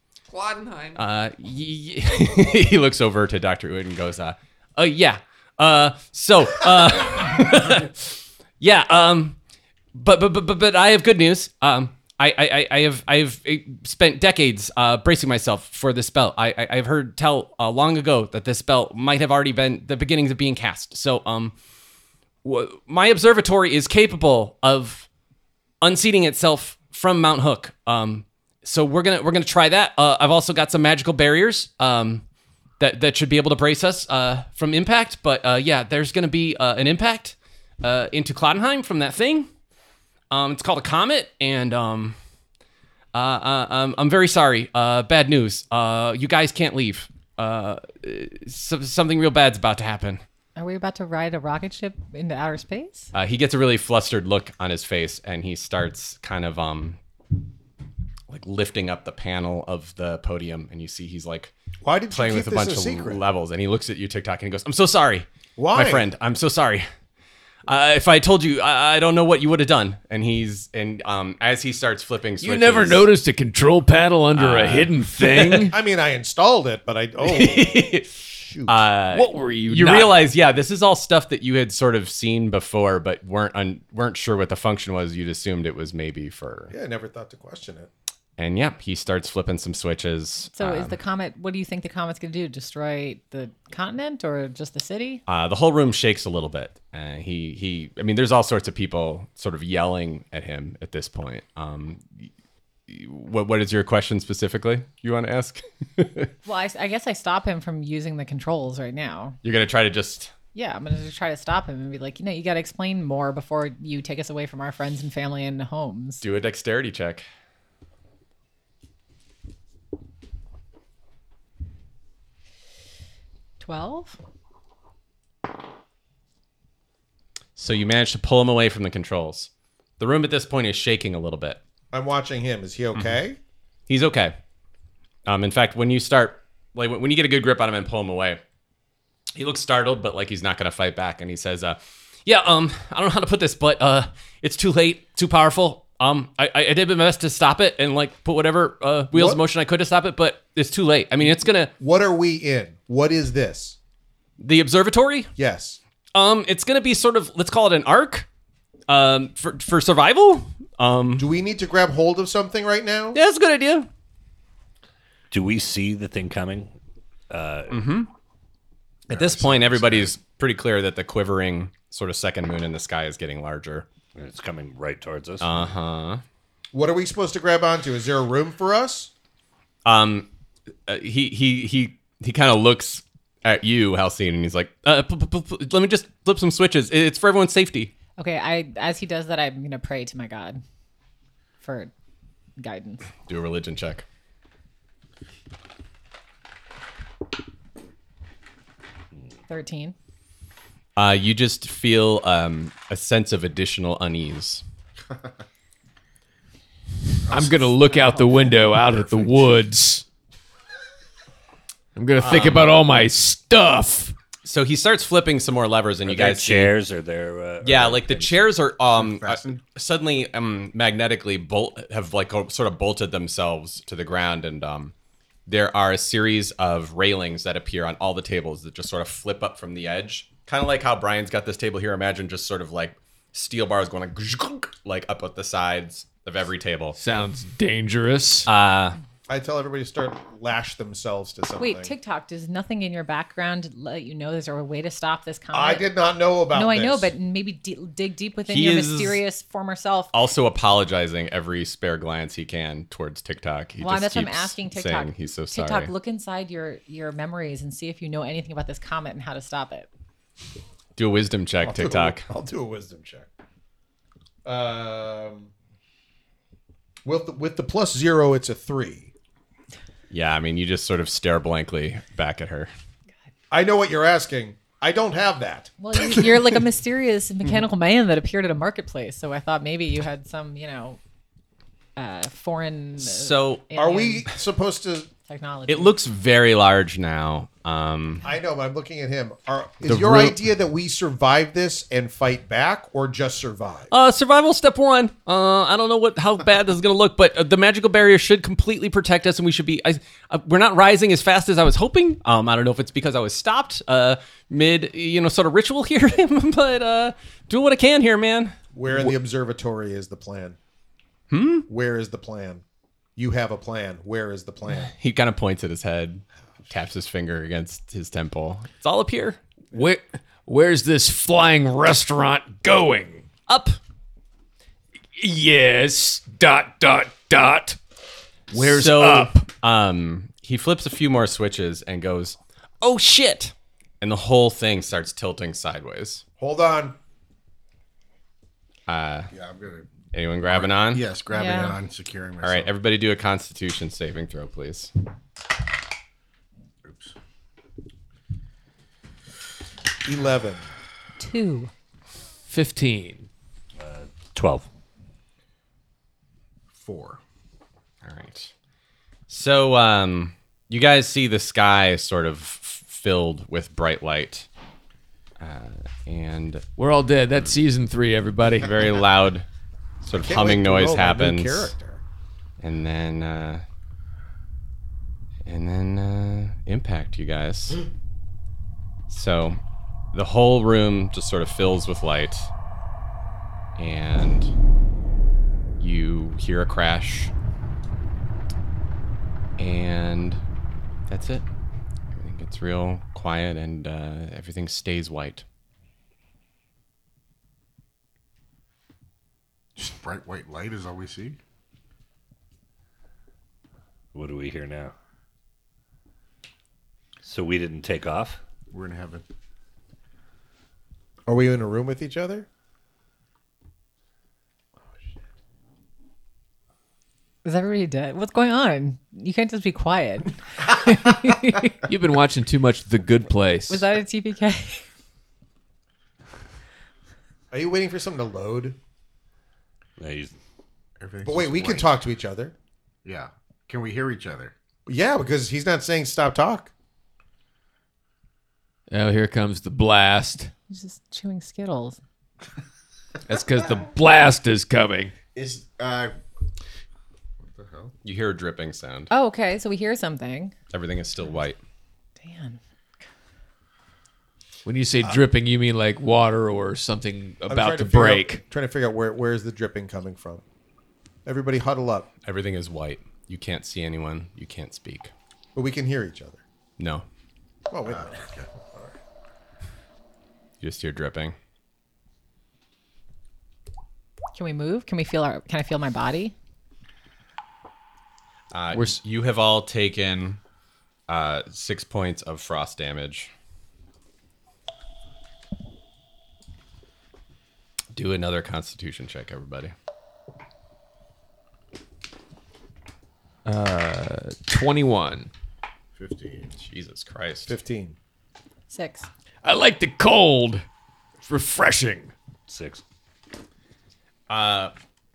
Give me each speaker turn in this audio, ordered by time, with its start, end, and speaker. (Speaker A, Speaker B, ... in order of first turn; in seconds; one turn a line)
Speaker A: 0.3-1.0
Speaker B: 1.0-9.3
Speaker B: 9.9-21.5
Speaker B: 22.4-25.1
Speaker B: 25.8-32.2
Speaker B: 32.8-39.5
Speaker B: 40.3-42.1
Speaker B: 43.1-50.2
Speaker C: 50.5-53.1
Speaker B: 53.1-57.0
Speaker B: 58.3-61.5
Speaker D: 61.8-63.2
Speaker B: 62.1-66.9
Speaker D: 65.6-66.1
Speaker B: 67.7-73.1
Speaker A: 72.4-75.7
Speaker B: 74.3-75.7
Speaker D: 75.7-77.9
Speaker B: 77.2-86.7
Speaker D: 78.5-78.8
Speaker A: 79.1-80.2
Speaker D: 86.7-87.9
Speaker B: 88.4-91.0
Speaker C: 90.6-95.2
Speaker B: 95.3-102.3
Speaker B: 102.9-106.3
Speaker C: 106.4-109.4
Speaker B: 109.4-110.3
Speaker C: 110.5-116.2
Speaker B: 116.2-117.2
Speaker C: 123.6-124.2
Speaker B: 127.5-131.6
Speaker D: 131.9-133.4
Speaker B: 133.9-134.3
Speaker B: 135.2-138.4
Speaker B: 139.3-151.7
Speaker D: 149.1-149.4
Speaker D: 151.8-153.8
Speaker B: 154.4-155.3
Speaker D: 155.4-155.8
Speaker B: 156.1-158.3
Speaker B: 158.9-161.2
Speaker D: 161.2-163.2
Speaker B: 163.1-163.9
Speaker E: 165.3-166.7
Speaker E: 167.3-167.8
Speaker B: 167.7-168.1
Speaker B: 169.1-173.8
Speaker E: 169.4-170.0
Speaker E: 174.1-175.7
Speaker B: 175.4-176.2
Speaker D: 176.7-179.1
Speaker B: 179.8-180.3
Speaker B: 180.9-187.9
Speaker C: 188.2-190.6
Speaker C: 191.6-191.9
Speaker C: 192.6-193.1
Speaker B: 193.3-194.0
Speaker C: 199.5-199.9
Speaker B: 200.9-204.6
Speaker F: 207.3-209.3
Speaker A: 207.3-210.0
Speaker A: 211.9-214.1
Speaker B: 212.2-212.8
Speaker B: 214.4-216.7
Speaker E: 216.1-218.4
Speaker B: 217.6-224.9
Speaker F: 218.9-219.6
Speaker B: 225.5-237.0
Speaker A: 236.9-238.5
Speaker B: 238.4-239.0
Speaker D: 239.3-241.9
Speaker C: 241.6-245.9
Speaker D: 245.5-247.1
Speaker C: 246.5-250.1
Speaker B: 248.5-249.2
Speaker B: 250.1-255.9
Speaker C: 253.8-259.9
Speaker B: 261.0-262.3
Speaker D: 261.6-263.3
Speaker D: 264.4-265.5
Speaker D: 267.0-269.1
Speaker B: 270.1-272.7
Speaker D: 273.5-276.4
Speaker C: 275.8-281.0
Speaker C: 281.9-284.3
Speaker B: 283.0-283.7
Speaker D: 283.7-285.1
Speaker C: 285.3-285.9
Speaker B: 285.7-288.2
Speaker D: 288.2-293.9
Speaker B: 289.8-290.4
Speaker B: 293.9-309.1
Speaker D: 308.7-310.6
Speaker B: 311.3-311.7
Speaker D: 311.7-312.6
Speaker D: 313.1-314.9
Speaker B: 314.9-319.4
Speaker A: 319.7-323.3
Speaker B: 323.5-323.8
Speaker A: 325.1-327.8
Speaker A: 328.5-329.4
Speaker B: 328.5-336.2
Speaker D: 336.4-337.0
Speaker B: 338.9-339.3
Speaker F: 339.3-339.9
Speaker B: 340.1-341.1
Speaker F: 340.5-342.7
Speaker C: 341.3-341.8
Speaker B: 342.4-344.9
Speaker F: 346.8-347.1
Speaker D: 350.0-350.7
Speaker C: 351.2-351.7
Speaker A: 352.5-353.3
Speaker E: 353.8-354.7
Speaker F: 356.7-357.2
Speaker B: 358.0-358.5
Speaker B: 359.3-364.5
Speaker B: 365.4-366.6
Speaker A: 366.8-368.7
Speaker B: 368.6-369.4
Speaker B: 370.0-371.7
Speaker D: 370.2-372.0
Speaker B: 372.6-373.6
Speaker B: 375.4-377.8
Speaker B: 379.1-379.6
Speaker B: 380.1-382.5
Speaker B: 383.8-384.5
Speaker B: 385.8-387.3
Speaker B: 389.6-390.4
Speaker B: 391.1-391.4
Speaker B: 392.1-395.4
Speaker F: 399.8-401.4
Speaker E: 404.1-404.9
Speaker E: 407.2-408.4
Speaker F: 408.7-409.2
Speaker D: 411.3-412.5
Speaker C: 417.4-421.8
Speaker A: 421.9-423.9
Speaker C: 423.7-424.8
Speaker D: 427.5-428.8
Speaker E: 430.0-430.3
Speaker F: 431.0-431.9
Speaker D: 431.2-432.5
Speaker F: 433.0-434.5
Speaker D: 434.9-436.7
Speaker A: 438.9-440.5
Speaker C: 440.7-442.0
Speaker A: 443.3-445.1
Speaker F: 445.2-446.1
Speaker F: 447.4-447.9
Speaker B: 448.0-449.1
Speaker C: 449.1-450.5
Speaker B: 450.7-451.6
Speaker C: 452.2-452.6
Speaker A: 454.6-458.4
Speaker D: 457.5-460.4
Speaker D: 461.2-462.1
Speaker B: 462.2-465.1
Speaker D: 465.5-466.4
Speaker B: 466.8-467.1
Speaker D: 467.7-468.9
Speaker F: 467.8-468.5
Speaker B: 470.6-471.4
Speaker C: 474.3-476.3
Speaker B: 478.5-480.4
Speaker A: 478.7-479.0
Speaker B: 481.1-483.3
Speaker B: 487.9-489.7
Speaker A: 493.4-495.3
Speaker F: 495.9-496.6
Speaker B: 496.6-497.5
Speaker D: 497.5-497.9
Speaker C: 498.7-499.1
Speaker A: 499.4-500.6
Speaker A: 501.2-502.1
Speaker E: 502.5-502.8
Speaker B: 504.3-504.7